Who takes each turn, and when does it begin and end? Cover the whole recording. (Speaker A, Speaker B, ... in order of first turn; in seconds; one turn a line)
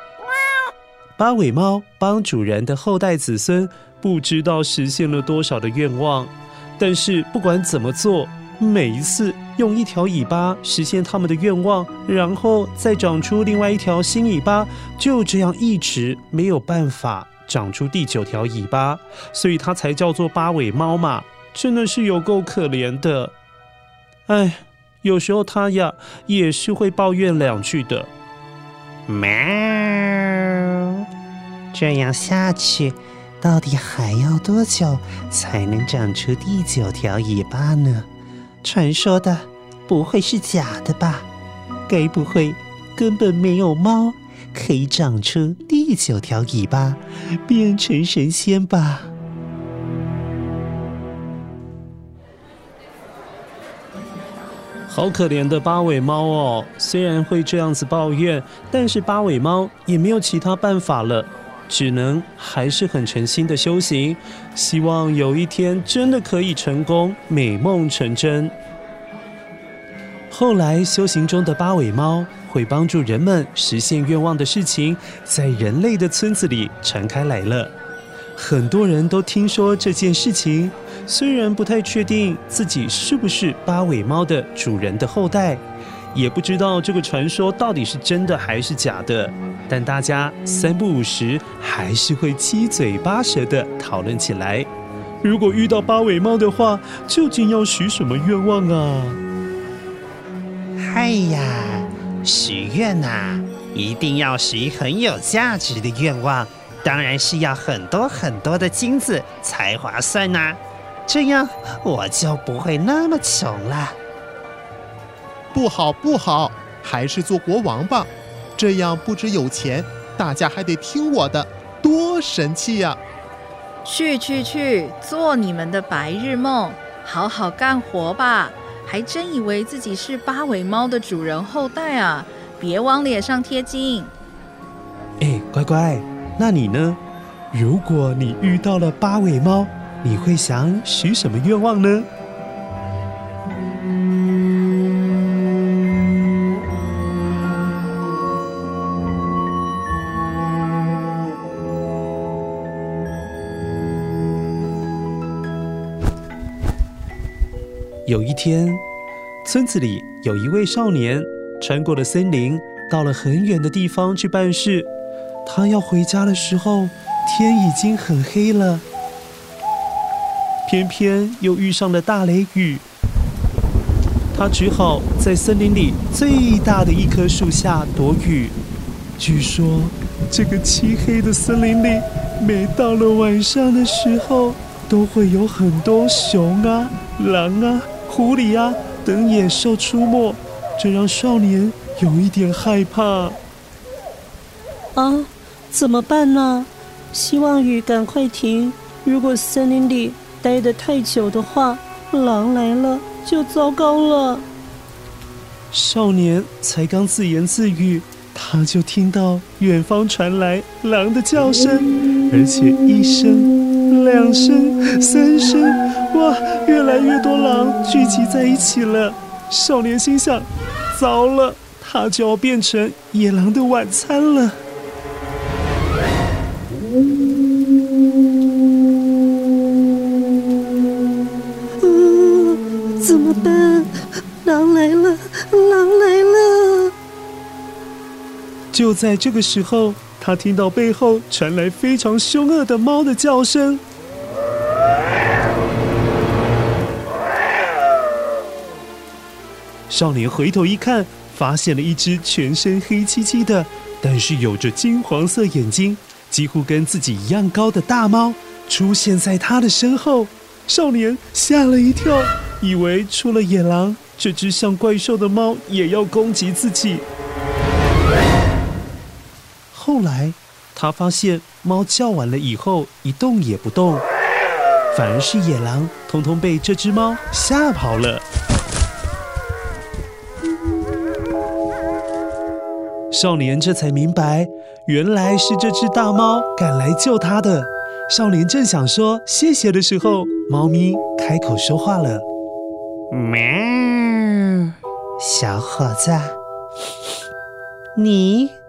Speaker A: 1.2-23.3
Speaker A: 24.3-28.1
Speaker B: 29.1-31.0
Speaker B: 31.7-38.1
Speaker B: 38.6-41.3
Speaker B: 41.9-49.1
Speaker A: 54.9-68.5
Speaker A: 70.3-77.7
Speaker A: 78.4-85.6
Speaker A: 86.1-94.7
Speaker A: 95.2-99.2
Speaker B: 100.8-114.0
Speaker C: 115.5-123.0
Speaker D: 123.8-134.1
Speaker A: 135.2-137.0
Speaker A: 137.5-142.1
Speaker A: 158.1-158.8
Speaker A: 159.4-164.9
Speaker A: 165.4-168.8
Speaker A: 170.7-172.8
Speaker A: 174.3-178.6
Speaker A: 179.2-193.4
Speaker E: 194.9-204.4
Speaker A: 205.7-224.6
Speaker E: 231.8-236.9
Speaker A: 238.7-243.8
Speaker A: 249.9-267.1
Speaker A: 269.7-274.0
Speaker A: 274.9-278.2
Speaker A: 283.1-292.2
Speaker B: 293.1-296.4
Speaker B: 297.9-298.6